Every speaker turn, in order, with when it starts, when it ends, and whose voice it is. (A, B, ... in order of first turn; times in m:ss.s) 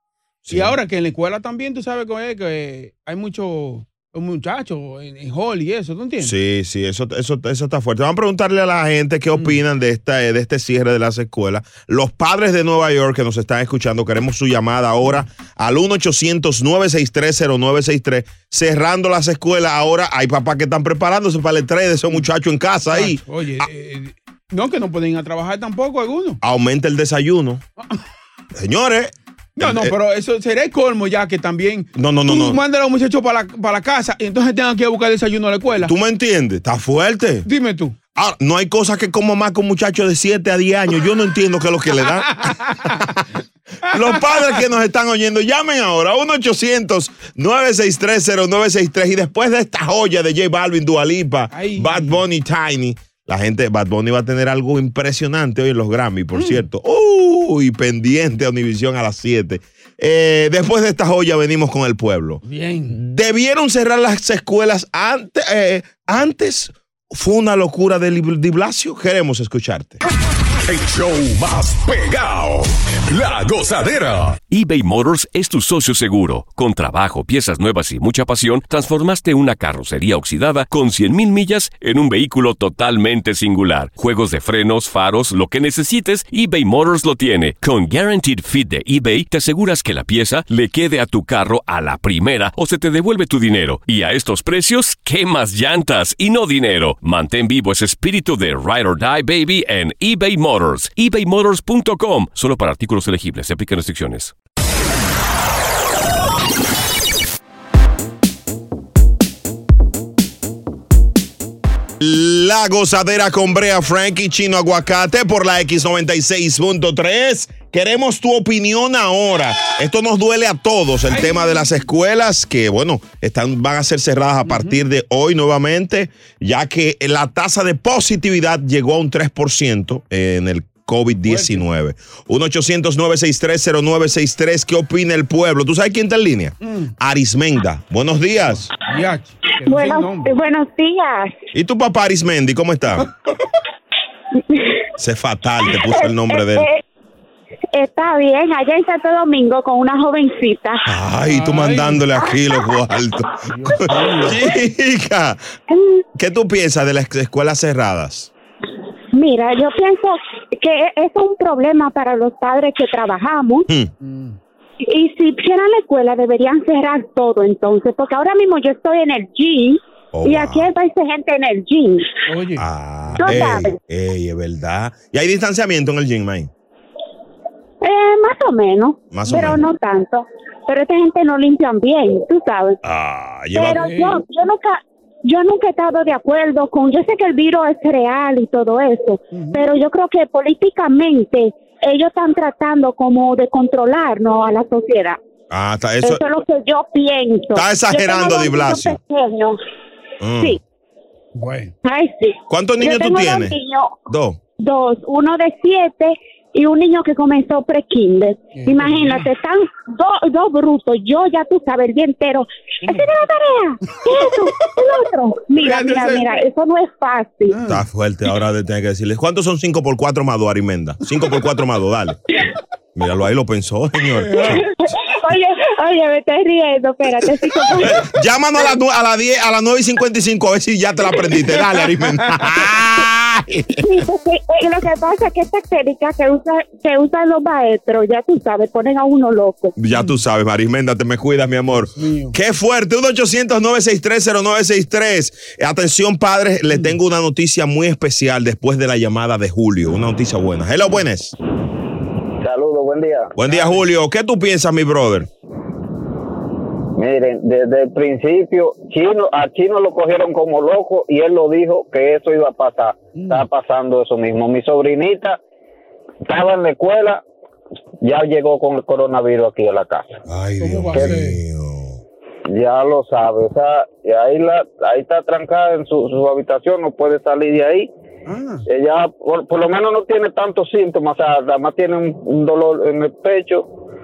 0:00.4-0:00.8 A
0:00.5-0:06.3 B
0:06.2-0:23.2 A
0:22.9-0:26.4 B
0:26.4-0:27.6 A
0:28.5-0:29.9 A
0:29.6-0:35.9 B
0:31.9-0:32.6 A
0:35.8-0:37.5 A
0:37.4-0:38.0 B
0:38.1-0:43.2 A
0:42.4-0:42.9 B
0:43.9-1:10.0 A
0:43.9-0:44.4 B
0:51.5-0:52.2 B
0:56.3-0:56.6 B
1:02.4-1:03.0 B
1:10.6-1:14.4 C
1:14.5-1:44.3 D
1:52.0-2:18.7 A
2:01.1-2:01.7 B
2:04.4-2:04.8 B
2:11.2-2:11.6 B
2:16.6-2:16.9 B
2:18.4-2:20.3 B
2:19.6-2:21.4 E
2:21.5-2:23.1 A
2:24.5-2:24.8 E
2:25.0-2:26.7 A
2:25.7-2:26.8 E
2:27.7-2:30.8 E
2:30.8-2:35.5 A
2:31.3-2:32.0 B
2:33.5-2:34.4 B
2:35.7-2:36.0 E
2:36.2-2:38.3 A
2:39.1-2:43.7 E
2:44.0-2:44.4 B
2:44.9-2:52.2 E
2:50.1-2:50.7 A
2:52.3-2:52.6 B
2:52.6-2:56.5 A
2:53.2-2:53.8 E
2:57.8-3:02.8 E
2:59.1-2:59.6 A
3:02.8-3:03.8 A
3:03.5-3:15.2 E
3:03.7-3:04.2 B
3:09.3-3:09.7 B
3:15.5-3:16.2 A
3:16.0-3:19.6 E
3:17.5-3:19.0 A
3:20.2-3:20.6 A
3:21.3-3:21.7 B
3:21.8-3:24.0 E
3:22.5-3:23.6 A
3:24.1-3:24.4 A
3:24.6-3:37.6 E
3:28.5-3:29.3 B
3:32.8-3:33.1 B
3:35.6-3:36.3 B
3:37.5-3:37.8 B
3:37.6-3:42.2 A
3:43.0-3:44.6 A
3:44.5-3:48.1 E
3:47.8-3:53.8 A
3:53.8-3:59.8 E
3:59.8-4:11.4 A
4:01.8-4:02.3 B
4:12.4-4:13.4 F
4:13.4-4:15.3 A
4:17.0-4:25.4 F
4:23.1-4:23.4 B
4:26.3-4:27.2 F
4:28.0-4:30.2 F
4:30.2-4:32.0 A
4:30.6-4:31.4 B
4:30.9-4:31.2 F
4:32.5-4:37.9 F
4:38.3-4:38.6 B
4:38.7-4:43.7 F